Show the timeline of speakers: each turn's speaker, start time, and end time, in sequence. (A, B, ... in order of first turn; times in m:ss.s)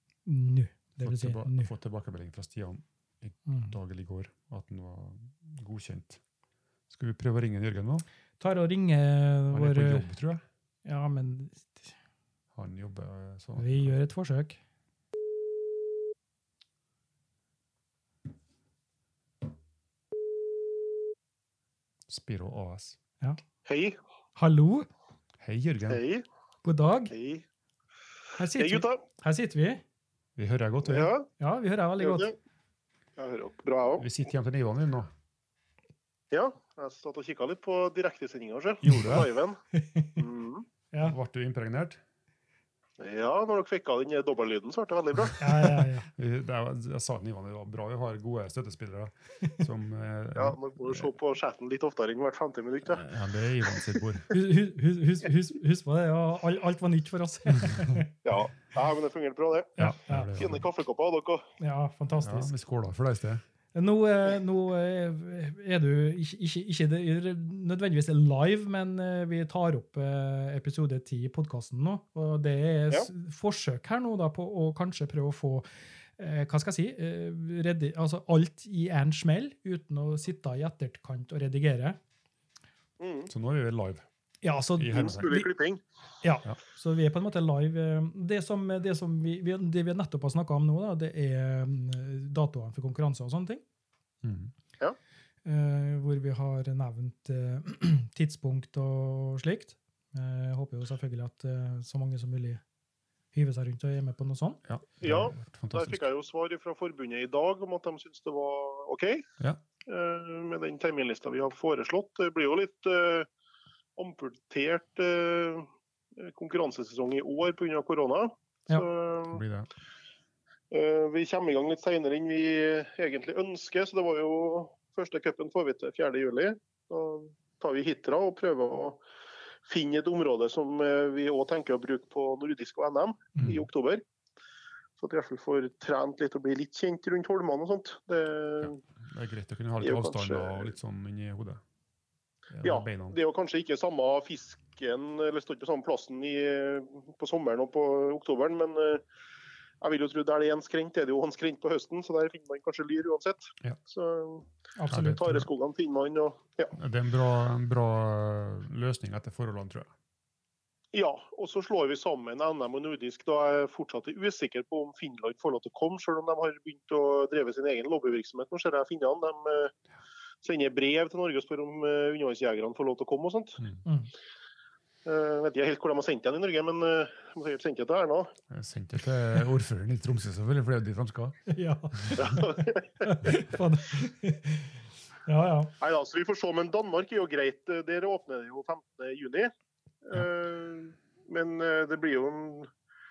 0:00.2-0:01.7 A
0:01.0-0:06.2 B
0:03.4-0:03.7 A
0:06.9-0:08.0 B
0:08.4-0:10.0 A
0:09.5-0:10.4 B
0:10.8-0:11.9 A
0:12.5-0:14.0 B
0:13.6-0:14.6 A
0:22.1-0:23.0 B
0:23.6-0:24.0 C
0:24.4-0:24.9 A
0:25.4-0:26.0 B
0:25.9-0:26.2 C
0:26.6-0:27.1 A
0:27.1-0:27.4 C
0:28.4-0:29.8 A
0:28.5-0:29.0 C
0:30.4-0:31.1 B
0:30.8-0:31.3 C
0:31.4-0:32.3 A
0:32.0-0:32.3 C
0:33.2-0:34.1 C
0:34.0-0:35.1 B
0:36.3-0:39.6 C
0:38.8-0:39.3 B
0:39.7-0:40.2 A
0:40.2-0:40.6 C
0:41.0-0:42.0 B
0:43.0-0:45.8 C
0:45.4-0:46.1 A
0:46.1-0:51.1 B
0:50.3-0:53.0 C
0:52.8-0:54.3 B
0:54.3-0:58.1 A
0:57.6-0:58.0 B
0:58.2-1:01.5 C
0:59.8-1:00.4 A
0:59.8-1:00.6 B
1:01.6-1:02.5 A
1:02.2-1:03.4 B
1:03.7-1:15.6 A
1:16.2-1:22.0 A
1:23.0-1:23.3 C
1:23.3-1:24.0 B
1:24.4-1:25.5 A
1:24.8-1:25.3 B
1:24.9-1:25.8 C
1:26.2-1:33.6 A
1:34.2-1:34.5 B
1:35.4-1:42.6 A
1:43.3-1:44.6 A
1:44.6-1:46.0 B
1:45.0-1:49.3 C
1:49.8-1:53.3 C
1:54.0-1:59.4 C
1:59.3-1:59.7 B
2:00.7-2:09.0 C
2:09.7-2:14.0 C
2:15.0-2:18.8 C
2:18.6-2:21.6 B
2:19.8-2:20.7 C
2:22.5-2:23.2 B
2:22.6-2:29.0 C
2:29.8-2:36.8 C
2:34.8-2:35.4 A
2:34.9-2:35.4 B
2:36.7-2:39.9 B
2:40.9-2:49.7 C
2:50.4-2:53.6 C
2:53.8-2:54.1 A
2:55.0-2:58.3 C
2:58.5-3:01.4 B
3:01.5-3:04.7 A
3:01.9-3:02.3 B
3:02.2-3:03.0 C
3:05.2-3:05.7 A
3:05.8-3:09.5 C
3:10.0-3:12.7 C